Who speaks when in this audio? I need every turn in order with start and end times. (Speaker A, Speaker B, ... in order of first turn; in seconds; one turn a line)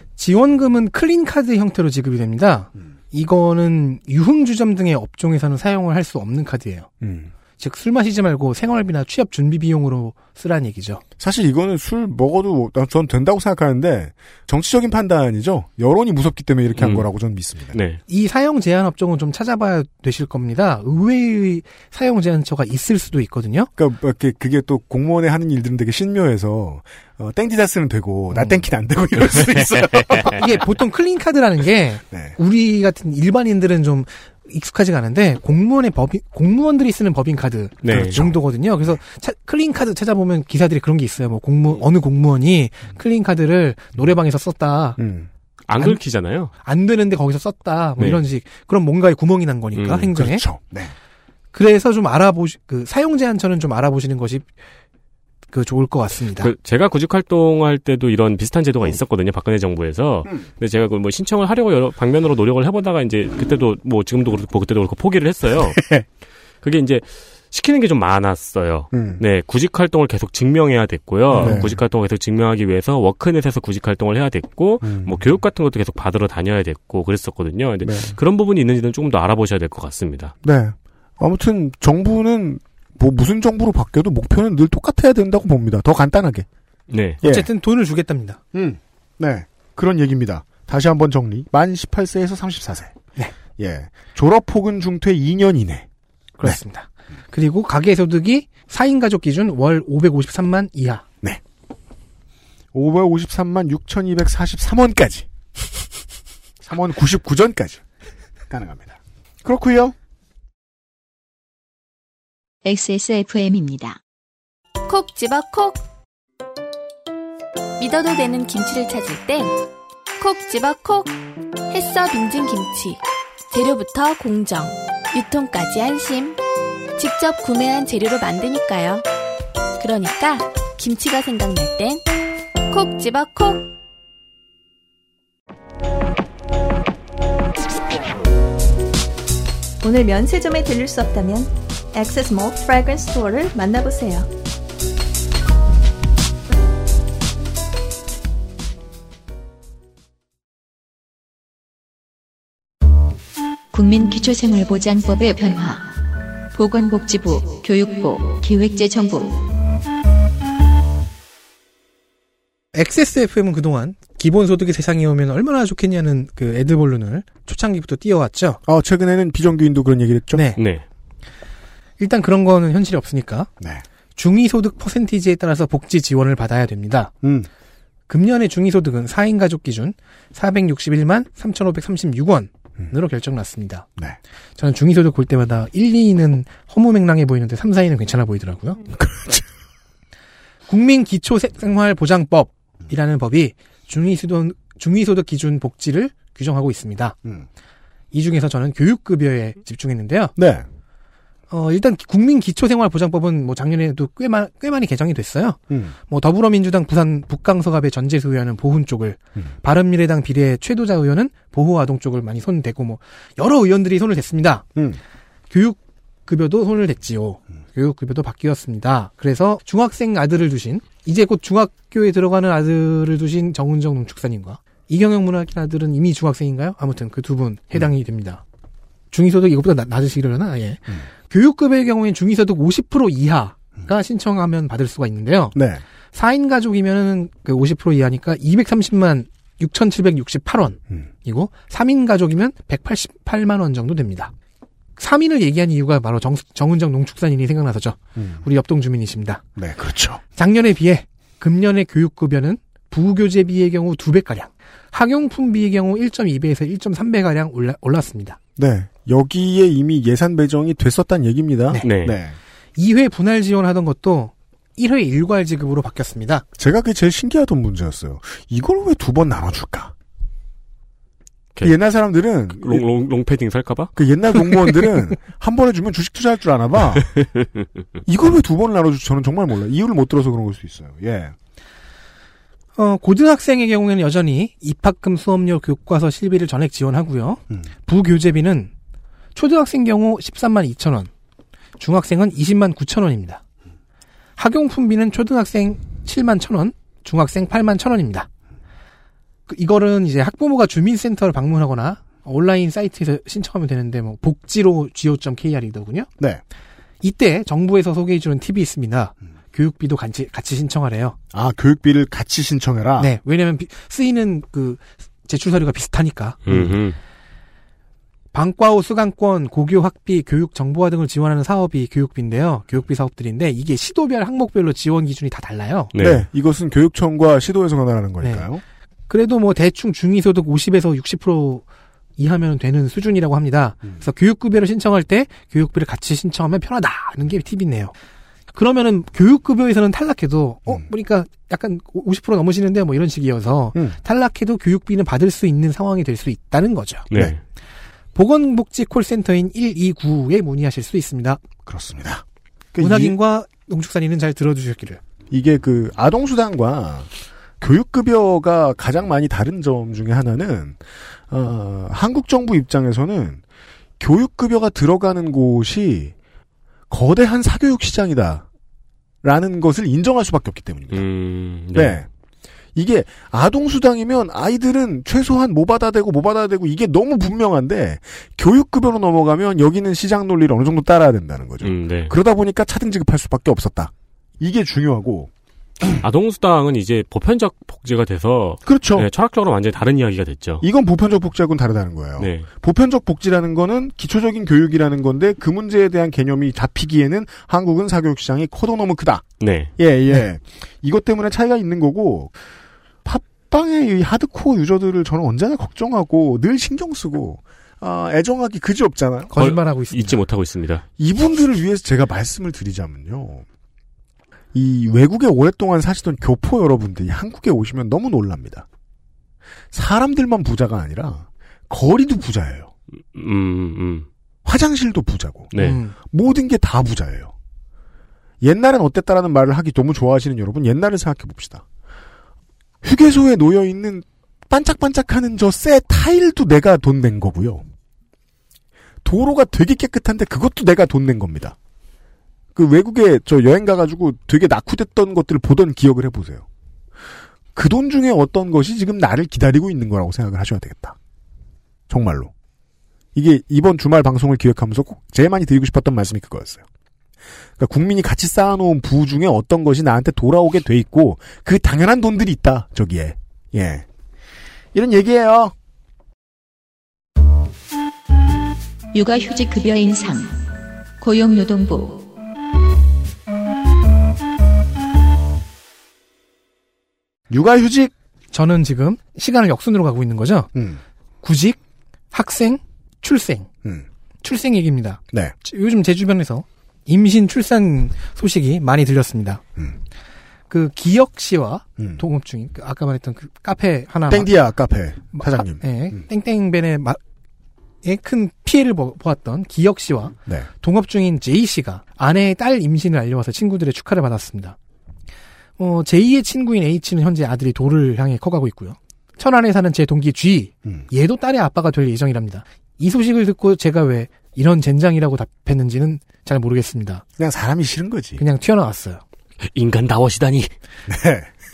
Speaker A: 0.2-6.9
Speaker B: 7.0-7.3
Speaker A: 7.6-11.0
Speaker B: 11.2-17.8
Speaker C: 16.8-17.1
Speaker C: 17.7-18.0
Speaker A: 18.1-23.7
Speaker B: 23.8-30.4
Speaker A: 30.3-45.0
Speaker B: 32.1-32.4
Speaker C: 37.8-38.2
Speaker B: 37.9-38.4
Speaker B: 45.0-45.3
Speaker C: 45.7-46.5
Speaker A: 46.6-50.4
Speaker C: 49.7-50.1
Speaker B: 50.2-50.9
Speaker A: 51.5-54.5
Speaker A: 55.5-56.5
Speaker C: 56.4-65.9
Speaker B: 65.8-66.0
Speaker C: 66.6-80.3
Speaker B: 68.9-69.2
Speaker B: 71.3-71.8
Speaker B: 74.8-75.3
Speaker B: 77.8-78.1
Speaker B: 80.4-86.5
Speaker C: 86.9-87.2
Speaker B: 87.2-87.5
Speaker A: 87.2-88.4
Speaker B: 88.5-93.0
Speaker B: 93.6-95.9
Speaker A: 96.4-101.0
Speaker B: 102.7-105.3
Speaker B: 106.6-107.8
Speaker B: 108.5-110.0
Speaker D: 112.6-114.0
Speaker E: 114.9-115.8
Speaker E: 117.8-119.6
Speaker E: 120.2-121.2
Speaker E: 121.7-126.4
Speaker E: 127.0-129.1
Speaker E: 129.8-132.0
Speaker E: 132.7-133.7
Speaker F: 139.8-144.3
Speaker D: 153.7-159.4
Speaker A: 162.7-168.6
Speaker B: 168.7-170.4
Speaker A: 170.3-170.6
Speaker C: 170.6-170.8
Speaker A: 172.0-173.5
Speaker A: 174.2-177.1
Speaker B: 177.2-177.5
Speaker A: 178.1-183.9
Speaker A: 184.6-188.8
Speaker B: 189.0-189.4
Speaker A: 190.7-197.2
Speaker A: 198.1-200.3
Speaker B: 200.4-200.7
Speaker A: 201.5-214.7
Speaker B: 205.7-205.9
Speaker A: 215.5-228.4
Speaker A: 229.1-235.6
Speaker B: 235.6-235.8
Speaker A: 236.1-244.3
Speaker A: 245.0-249.4
Speaker B: 248.2-248.4
Speaker B: 249.6-250.2
Speaker A: 250.4-258.4
Speaker B: 258.6-262.4
Speaker C: 261.8-262.2
Speaker A: 262.8-266.4
Speaker B: 266.6-269.9
Speaker B: 271.6-272.9
Speaker C: 272.6-274.6
Speaker B: 273.9-277.1
Speaker C: 277.2-277.5
Speaker B: 278.1-281.3
Speaker A: 282.8-288.7
Speaker A: 289.4-291.1
Speaker A: 291.8-293.4
Speaker A: 294.4-298.3
Speaker A: 299.5-306.1
Speaker A: 307.0-311.2
Speaker B: 311.3-313.1
Speaker A: 313.0-316.4
Speaker C: 316.4-317.0
Speaker A: 318.3-325.9
Speaker C: 325.9-326.3
Speaker B: 326.0-328.6
Speaker A: 329.1-331.6
Speaker A: 332.2-337.9
Speaker A: 338.5-347.1
Speaker C: 347.1-347.4
Speaker A: 348.1-351.4
Speaker B: 351.7-353.2
Speaker A: 352.8-355.0
Speaker B: 355.3-357.1
Speaker B: 357.6-363.4
Speaker B: 364.0-366.1
Speaker B: 366.9-368.4
Speaker B: 369.2-371.1
Speaker C: 370.9-372.0
Speaker B: 371.7-372.1
Speaker B: 372.7-385.3
Speaker C: 381.6-382.1
Speaker C: 386.0-390.6
Speaker B: 388.7-389.1
Speaker B: 390.6-402.3
Speaker C: 392.2-392.5
Speaker C: 399.4-399.7
Speaker B: 403.1-409.5
Speaker A: 409.3-410.2
Speaker C: 409.4-410.8
Speaker B: 411.0-413.4
Speaker B: 414.5-418.7
Speaker B: 419.7-422.7
Speaker C: 423.1-424.1
Speaker B: 424.4-427.3
Speaker C: 425.5-425.8
Speaker A: 425.6-425.9
Speaker B: 428.4-431.6
Speaker B: 432.8-437.7
Speaker B: 439.0-441.6
Speaker B: 442.6-446.4
Speaker B: 447.6-450.9
Speaker B: 451.9-452.3
Speaker B: 453.1-456.6
Speaker B: 457.6-463.9
Speaker B: 464.7-465.5
Speaker D: 468.9-470.4
Speaker D: 471.0-472.1
Speaker B: 477.3-477.9
Speaker A: 478.3-480.5
Speaker B: 480.6-480.8
Speaker A: 481.2-481.6
Speaker A: 482.1-483.5
Speaker A: 484.2-489.4
Speaker A: 490.5-494.3
Speaker B: 494.1-496.0
Speaker A: 495.1-497.0
Speaker A: 497.8-504.6
Speaker A: 505.6-517.0
Speaker B: 517.2-518.2
Speaker A: 518.2-519.0
Speaker C: 519.5-520.5
Speaker B: 520.9-521.3